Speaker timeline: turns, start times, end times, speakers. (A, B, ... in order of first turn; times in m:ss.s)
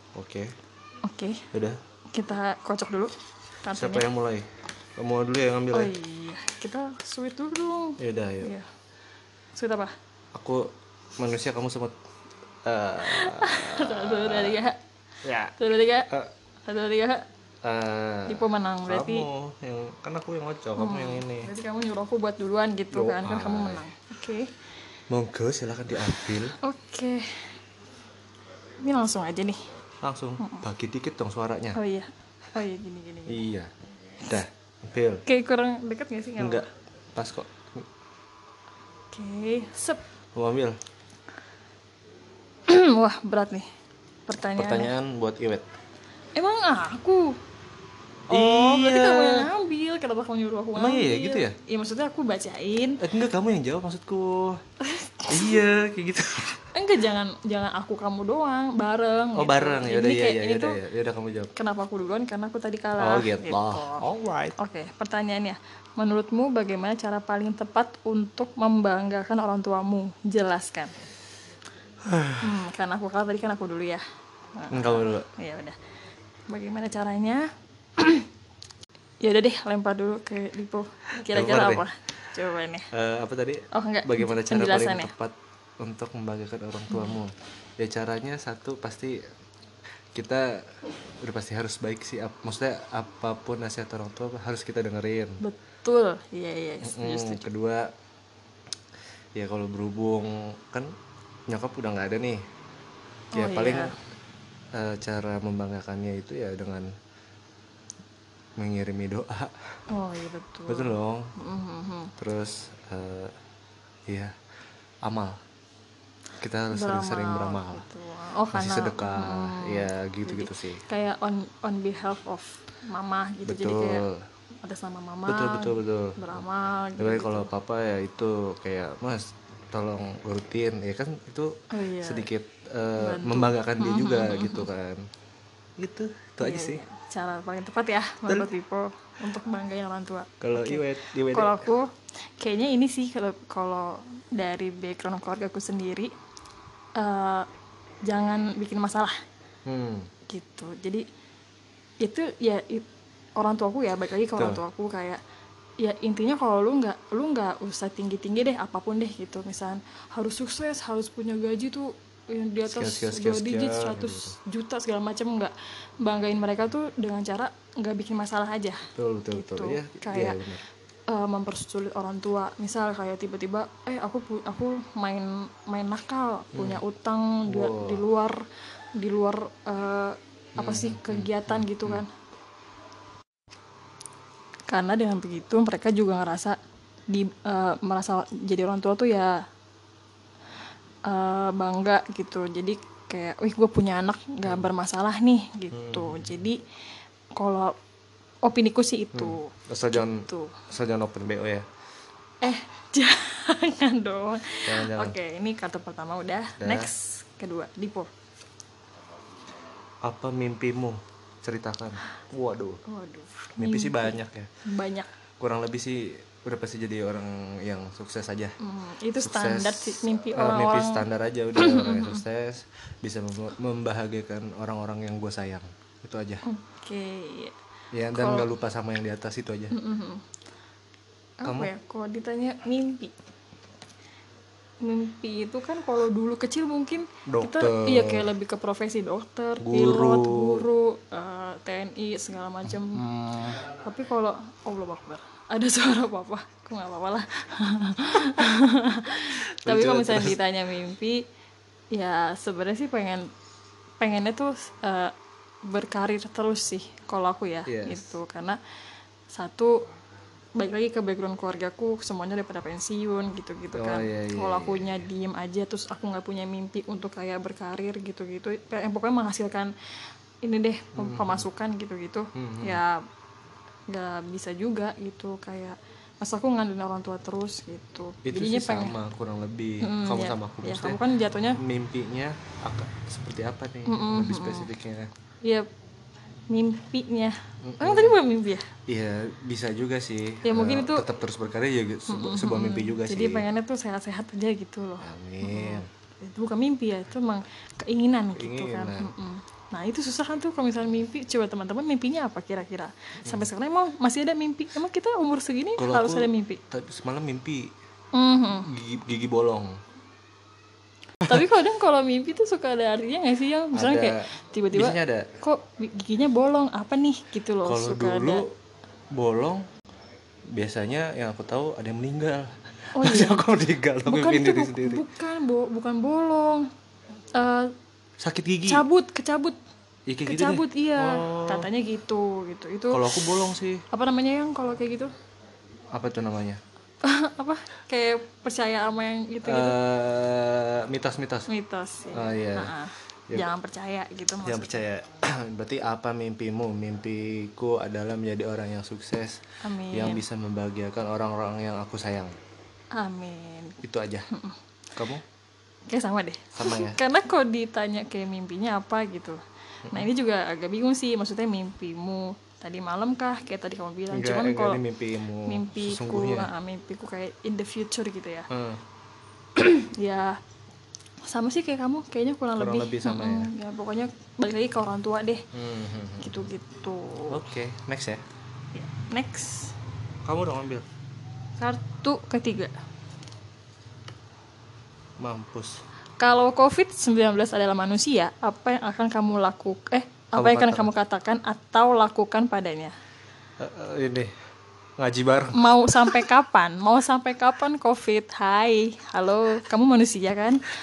0:00.2-0:00.5 A
0:01.0-0:01.5 B
0:01.5-0:01.8 A
0:02.1-0:03.1 B
0:03.6-0:04.1 B
0:03.7-0:05.9 A
0:05.7-0:08.7 B
0:08.0-0:08.5 A
0:09.6-0:09.9 B
0:10.3-0:12.0 A
0:12.6-0:14.6 A
0:13.0-0:14.8 B
0:15.2-0:15.6 A
0:15.6-0:16.1 B
0:16.7-0:17.3 B
0:17.6-0:21.5 A
0:18.3-0:19.3 B
0:20.8-0:24.5 B
0:22.9-0:23.8 A
0:25.1-0:26.6 A
0:26.1-0:27.5 B
0:28.8-0:29.6 B
0:30.0-0:31.8 A
0:30.4-0:30.6 B
0:31.7-0:33.4 B
0:33.3-0:35.2 A
0:35.2-0:36.7 B
0:36.4-0:37.9 A
0:39.1-0:40.0 B
0:40.4-0:40.8 A
0:42.7-0:43.7 B
0:44.3-0:44.9 B
0:44.5-0:45.6 A
0:46.4-0:47.4 B
0:48.3-0:49.5 A
0:48.3-0:53.0 B
0:50.8-0:51.6 A
0:53.0-0:54.6 A
0:54.8-0:55.6 B
0:55.3-0:56.6 A
0:56.7-1:00.8 B
0:59.4-1:01.5 A
1:01.6-1:04.0 B
1:03.0-1:04.6 A
1:04.6-1:10.9 B
1:12.0-1:12.5 A
1:12.4-1:14.0 B
1:14.6-1:15.8 B
1:14.7-1:15.3 A
1:16.5-1:18.3 B
1:19.2-1:22.9 B
1:21.3-1:21.9 A
1:22.9-1:29.2 A
1:23.7-1:25.1 B
1:26.9-1:27.2 B
1:30.2-1:30.6 A
1:31.2-1:35.4 A
1:35.4-1:37.4 B
1:36.8-1:37.9 A
1:39.4-1:40.9 A
1:41.5-1:42.4 A
1:43.3-1:44.0 B
1:43.3-1:43.9 A
1:44.7-1:46.9 A
1:48.6-1:49.6 A
1:49.9-1:52.1 B
1:50.7-1:51.3 A
1:52.2-1:53.4 A
1:54.1-1:54.3 A
1:55.0-1:55.4 A
1:56.4-1:57.8 A
1:56.7-2:04.0 B
1:58.5-2:00.8 A
2:03.5-2:04.2 A
2:04.6-2:07.5 B
2:05.3-2:06.4 A
2:07.0-2:15.0 A
2:11.7-2:12.3 B
2:13.0-2:14.7 B
2:15.8-2:16.8 A
2:16.4-2:26.1 B
2:18.3-2:18.5 A
2:20.4-2:21.7 A
2:27.0-2:27.5 B
2:28.1-2:29.2 B
2:29.7-2:30.1 A
2:30.3-2:31.0 B
2:32.0-2:32.9 B
2:33.4-2:35.2 B
2:34.4-2:34.6 A
2:35.8-2:50.4 B
2:42.7-2:44.4 A
2:49.0-2:50.6 A
2:51.1-2:58.4 B
2:56.5-2:56.8 A
2:57.5-2:58.0 A
2:59.0-3:02.1 B
3:00.6-3:02.0 A
3:04.7-3:06.6 B
3:07.1-3:09.4 B
3:11.0-3:16.6 B
3:15.7-3:16.3 A
3:17.4-3:17.7 B
3:18.4-3:20.6 B
3:19.1-3:21.6 A
3:22.4-3:28.1 B
3:24.7-3:25.2 A
3:26.6-3:26.9 A
3:30.0-3:32.8 A
3:32.8-3:35.1 B
3:33.6-3:34.5 A
3:35.4-3:38.6 A
3:38.6-3:41.0 B
3:39.2-3:46.4 A
3:41.6-3:42.2 B
3:46.4-3:47.6 B
3:47.9-3:49.8 A
3:48.1-3:48.5 B
3:49.7-3:50.2 B
3:51.4-3:53.1 B
3:51.4-3:51.7 A
3:54.8-4:11.2 B
3:57.3-3:58.3 A
3:59.6-4:00.7 A
4:03.0-4:03.6 A
4:09.3-4:10.4 A
4:11.9-4:13.3 B
4:14.0-4:15.1 B
4:15.6-4:18.6 B
4:17.7-4:18.1 A
4:19.3-4:19.8 B
4:20.6-4:29.7 B
4:23.7-4:25.0 A
4:30.4-4:33.0 B
4:31.0-4:31.4 A
4:32.4-4:32.8 A
4:33.9-4:39.0 B
4:38.2-4:41.0 A
4:39.8-4:41.6 B
4:41.5-4:45.1 A
4:43.9-4:44.7 B
4:46.5-4:48.7 B
4:47.6-4:48.2 A
4:48.9-4:53.5 A
4:50.4-4:51.1 B
4:52.1-5:06.6 B
4:55.0-4:55.9 A
4:58.4-4:59.1 A
5:05.8-5:07.7 A
5:08.1-5:08.7 B
5:08.6-5:09.8 A
5:11.2-5:18.4 B
5:13.7-5:15.3 A
5:17.6-5:18.5 A
5:19.1-5:19.6 A
5:20.5-5:25.0 A
5:23.0-5:23.4 B
5:24.1-5:26.7 B
5:27.3-5:27.7 B
5:28.2-5:28.8 A
5:28.7-5:29.6 B
5:30.1-5:31.7 A
5:30.3-5:33.4 B
5:32.9-5:33.8 A
5:33.9-5:35.1 B
5:35.9-5:36.6 A
5:37.0-5:39.8 B
5:39.4-5:41.5 A
5:41.5-5:44.8 B
5:42.1-5:42.7 A
5:44.4-5:52.4 A
5:49.6-5:50.2 B
5:52.9-5:54.6 B
5:53.8-5:54.3 A
5:55.0-5:55.2 A
5:55.9-6:04.8 B
5:56.6-5:57.0 A
6:04.1-6:06.5 A
6:05.4-6:08.5 B
6:08.5-6:08.8 A
6:09.6-6:10.4 B
6:11.2-6:15.4 B
6:12.6-6:13.5 A
6:15.5-6:16.4 A
6:16.2-6:17.4 B
6:17.3-6:18.2 A
6:18.8-6:19.8 B
6:20.2-6:20.9 A
6:21.6-6:22.7 B
6:25.2-6:25.8 A
6:26.2-6:32.9 B
6:30.3-6:30.9 A
6:33.6-6:34.3 A
6:35.0-6:36.3 A
6:35.5-6:40.7 B